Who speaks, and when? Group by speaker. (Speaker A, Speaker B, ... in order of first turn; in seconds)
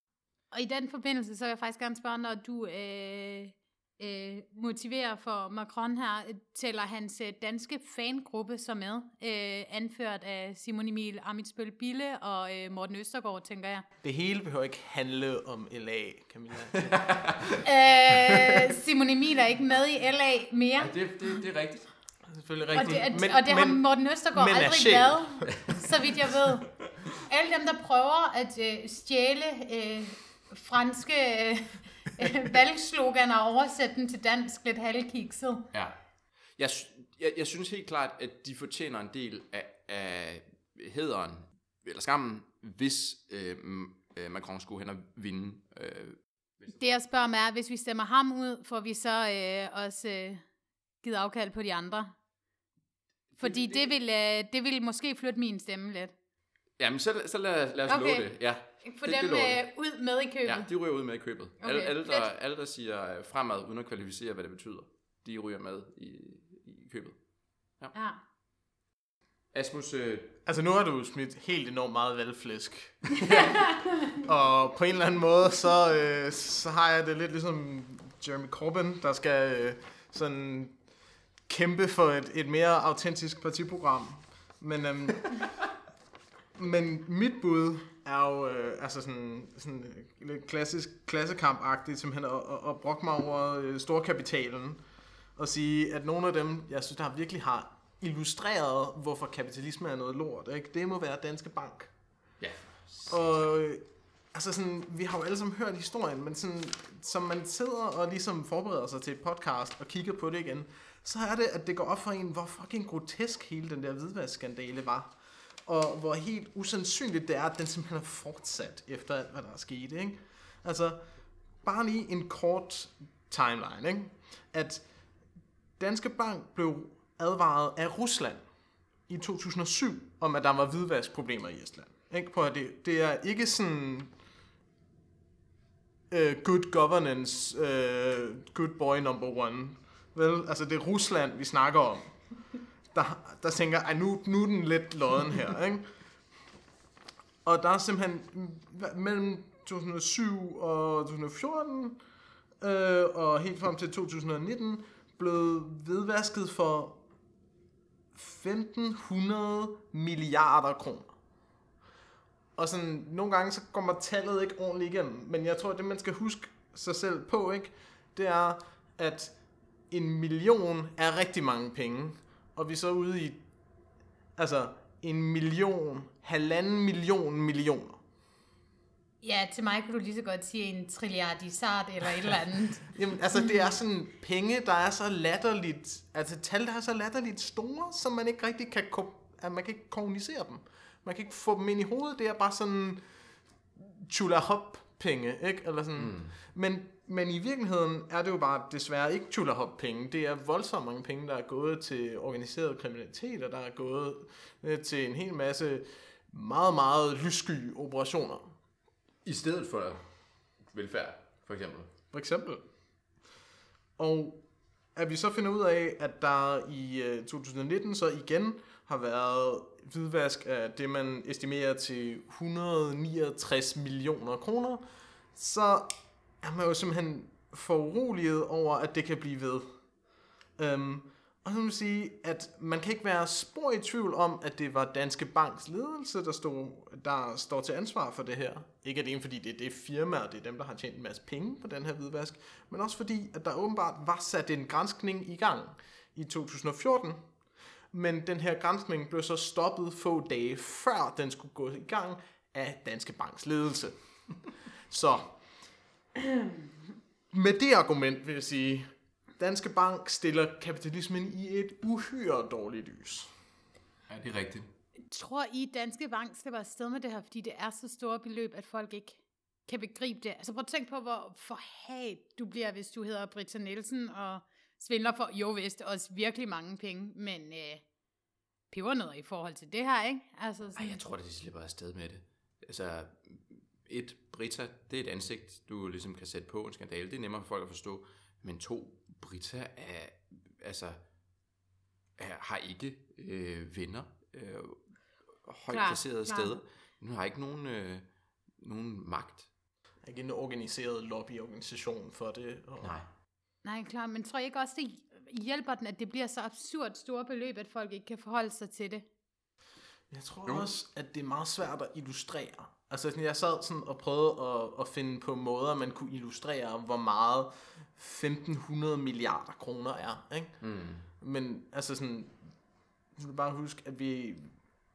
Speaker A: 0.5-13.9, 17.6-20.9, 22.7-26.7, 27.2-35.7, 46.8-50.4, 51.0-52.1, 53.4-56.1, 57.9-58.3, 58.8-60.7, 61.6-62.3, 67.9-68.2, 73.3-73.9, 179.2-182.9, 265.1-277.8, 278.7-281.0, 295.7-296.5, 303.6-309.1
Speaker B: 14.0-17.6, 18.1-18.7, 22.3-25.6, 70.5-73.5, 74.1-80.8, 81.5-85.5, 86.5-94.8, 95.4-101.9, 103.1-121.1, 121.6-124.8, 125.8-128.5, 129.1-134.2, 136.1-142.2, 142.9-146.0, 147.4-152.0, 152.6-157.0, 158.1-161.1, 162.6-169.4, 169.9-173.4, 174.4-178.0, 182.9-193.2, 193.8-208.6, 212.1-212.7, 214.0-214.4, 214.9-229.8, 230.6-247.3, 247.9-254.0, 254.9-255.4, 257.3-263.4, 300.0-303.0, 310.1-320.6, 321.2-322.4, 323.2-324.5
Speaker C: 16.8-17.6, 20.8-21.9, 35.7-36.0, 36.6-46.2, 53.3-53.9, 56.8-59.6, 60.5-67.2, 69.5-70.4, 102.4-103.3, 196.0-196.3, 209.2-210.1, 210.6-211.9, 264.1-264.7, 280.8-291.0, 292.2-294.8, 295.5-298.1, 298.6-299.5, 302.8-303.1, 320.6-321.1